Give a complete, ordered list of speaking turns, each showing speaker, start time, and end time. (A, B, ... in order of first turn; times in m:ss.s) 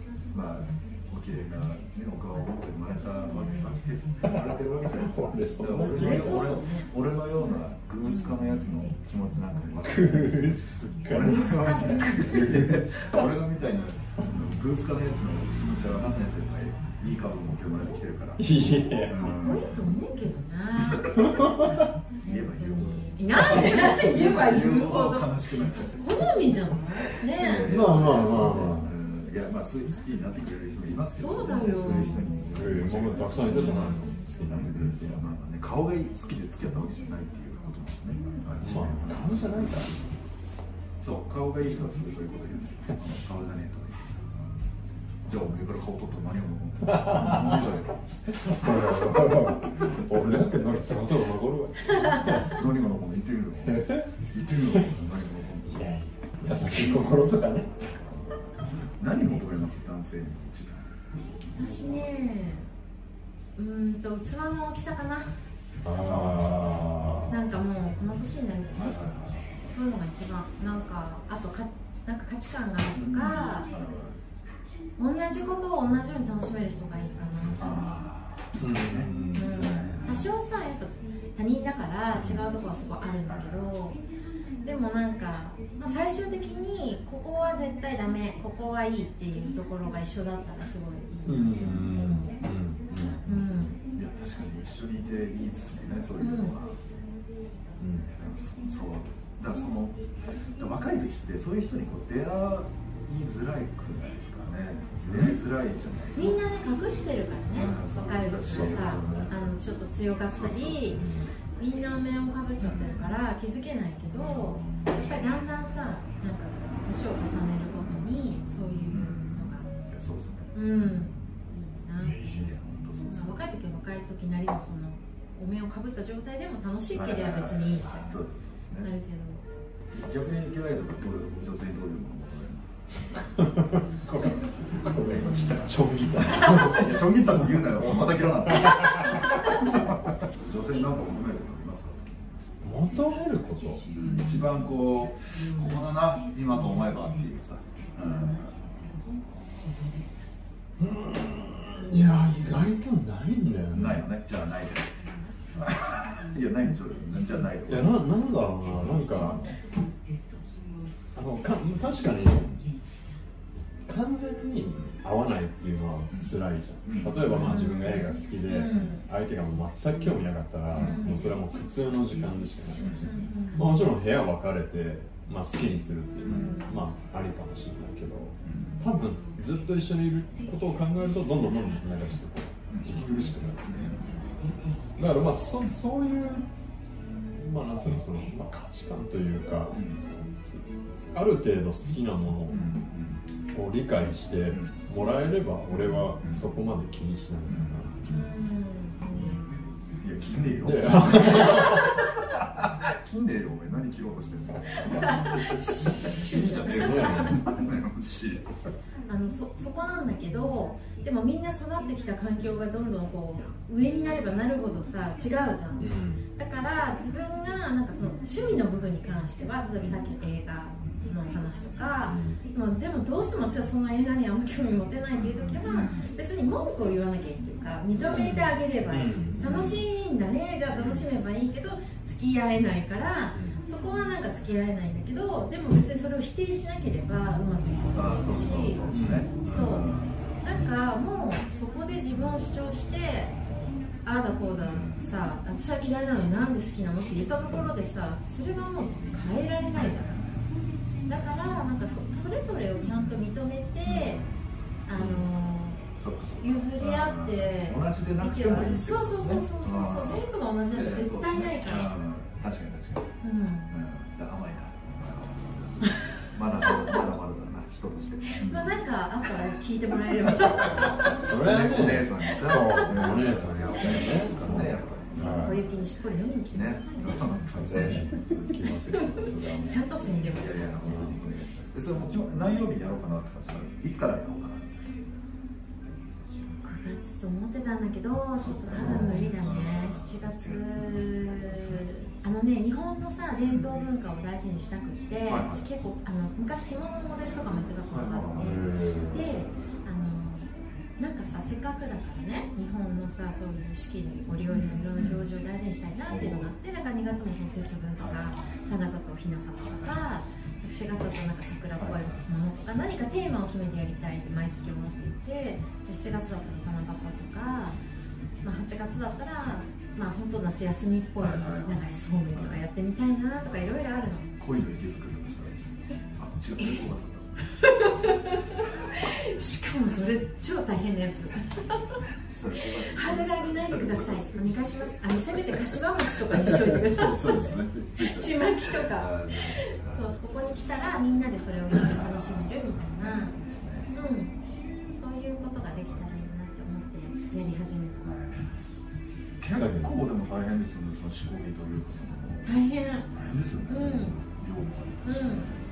0:00.3-0:19.7 A
0:04.2-0:06.6 B
0:05.7-0:06.9 C
0:08.1-0:08.3 C
0:09.8-0:11.6 B
0:11.1-0:12.7 C
0:12.1-0:13.3 B
0:18.4-0:19.4 B
0:19.1-0:21.6 C
0:21.1-0:21.9 B
0:22.2-0:26.1 A
0:22.2-0:27.7 C
0:27.2-0:39.7 A
0:27.6-0:28.9 B
0:31.2-0:32.6 C
0:31.7-0:35.2 B
0:33.3-0:34.3 C
0:38.6-0:40.1 B
0:41.0-0:44.4 A
0:45.2-0:48.0 A
0:46.8-0:47.7 B
0:48.3-0:52.6 B
0:48.5-0:48.9 A
0:49.8-0:50.8 A
0:52.2-0:55.9 A
0:53.6-0:54.1 B
0:55.7-0:58.0 B
0:56.4-0:57.1 A
0:59.0-1:00.9 A
1:01.5-1:02.7 C
1:03.6-1:05.4 C
1:05.8-1:07.2 B
1:05.9-1:07.4 A
1:07.3-1:09.1 C
1:08.7-1:09.5 A
1:09.6-1:13.7 C
1:12.9-1:14.2 A
1:15.0-1:17.9 C
1:17.6-1:20.3 A
1:18.6-1:20.1 B
1:19.3-1:24.0 C
1:22.1-1:22.4 B
1:23.3-1:23.7 A
1:24.6-1:32.4 C
1:31.2-1:33.7 B
1:33.1-1:33.8 C
1:33.9-1:36.8 A
1:36.2-1:36.5 C
1:37.8-1:38.1 B
1:38.1-1:40.0 A
1:40.6-1:46.4 A
1:45.0-1:45.4 B
1:46.1-1:51.0 C
1:47.5-1:49.5 A
1:48.4-1:49.3 B
1:50.3-1:51.1 A
1:50.9-1:51.3 B
1:51.6-1:59.7 C
1:52.6-1:53.1 A
1:54.2-1:54.9 A
1:58.9-2:01.1 A
2:00.5-2:02.4 C
2:02.1-2:03.4 A
2:03.0-2:08.1 C
2:06.9-2:08.9 A
2:08.8-2:09.4 C
2:09.9-2:12.7 A
2:13.4-2:19.1 B
2:14.8-2:22.3 A
2:22.6-2:23.9 B
2:23.9-2:28.5 A
2:30.8-2:34.0 B
2:33.7-2:34.9 A
2:35.5-2:38.0 A
2:37.6-2:39.4 B
2:39.1-2:39.6 A
2:41.1-2:42.6 B
2:43.8-3:03.6 B
2:46.8-2:47.7 A
2:47.3-2:49.0 C
2:50.7-2:51.1 A
2:50.8-2:51.3 C
2:52.8-2:53.2 A
2:53.0-2:53.8 C
2:56.2-2:56.6 A
2:56.2-2:56.8 C
2:58.4-2:58.8 A
3:02.7-3:04.1 A
3:05.0-3:06.4 B
3:07.4-3:09.9 B
3:09.7-3:10.0 A
3:11.1-3:12.7 B
3:12.5-3:13.2 A
3:13.5-3:17.9 B
3:17.4-3:18.2 A
3:18.1-3:19.6 C
3:20.0-3:28.5 A
3:20.6-3:22.0 B
3:24.8-3:27.4 C
3:26.7-3:27.4 B
3:29.1-4:03.3 C
3:35.8-3:36.2 B
3:42.0-3:42.4 B
3:45.2-3:46.1 A
3:48.0-3:49.8 B
3:50.7-3:51.0 B
3:53.3-3:53.6 B
3:57.9-4:00.0 A
3:58.9-3:59.9 B
4:04.0-4:10.2 C
4:04.7-4:05.0 A
4:09.7-4:10.4 A
4:11.1-4:14.2 C
4:13.9-4:14.2 A
4:14.9-4:15.8 C
4:15.0-4:15.2 A
4:16.0-4:23.1 A
4:16.4-4:21.9 C
4:23.2-4:23.7 C
4:23.7-4:28.8 A
4:28.3-4:31.2 C
4:30.4-4:35.8 A
4:30.6-4:35.6 B
4:32.6-4:33.1 C
4:35.2-4:37.5 C
4:36.5-4:38.5 A
4:37.5-4:39.8 B
4:38.9-4:41.0 C
4:40.3-4:44.7 A
4:40.8-4:41.1 B
4:46.6-5:17.8 C
4:48.4-4:51.8 A
4:48.7-4:49.3 B
4:53.4-4:53.8 A
4:55.2-4:55.7 A
4:57.9-4:58.6 A
4:58.4-4:59.3 B
5:04.5-5:05.2 A
5:06.1-5:06.4 A
5:08.0-5:08.4 A
5:09.6-5:10.1 A
5:11.8-5:12.2 A
5:18.4-5:24.3 C
5:21.2-5:22.6 A
5:24.4-5:27.3 A
5:26.6-5:26.8 C
5:27.5-5:32.0 C
5:32.0-5:40.1 A
5:32.9-5:43.3 C
5:41.7-5:43.9 A
5:43.9-5:44.3 C
5:44.9-5:48.1 C
5:48.0-5:48.4 A
5:49.4-5:52.5 A
5:49.5-5:49.9 B
5:52.4-5:53.1 C
5:53.1-5:55.4 A
5:53.7-5:54.2 C
5:55.0-5:55.5 C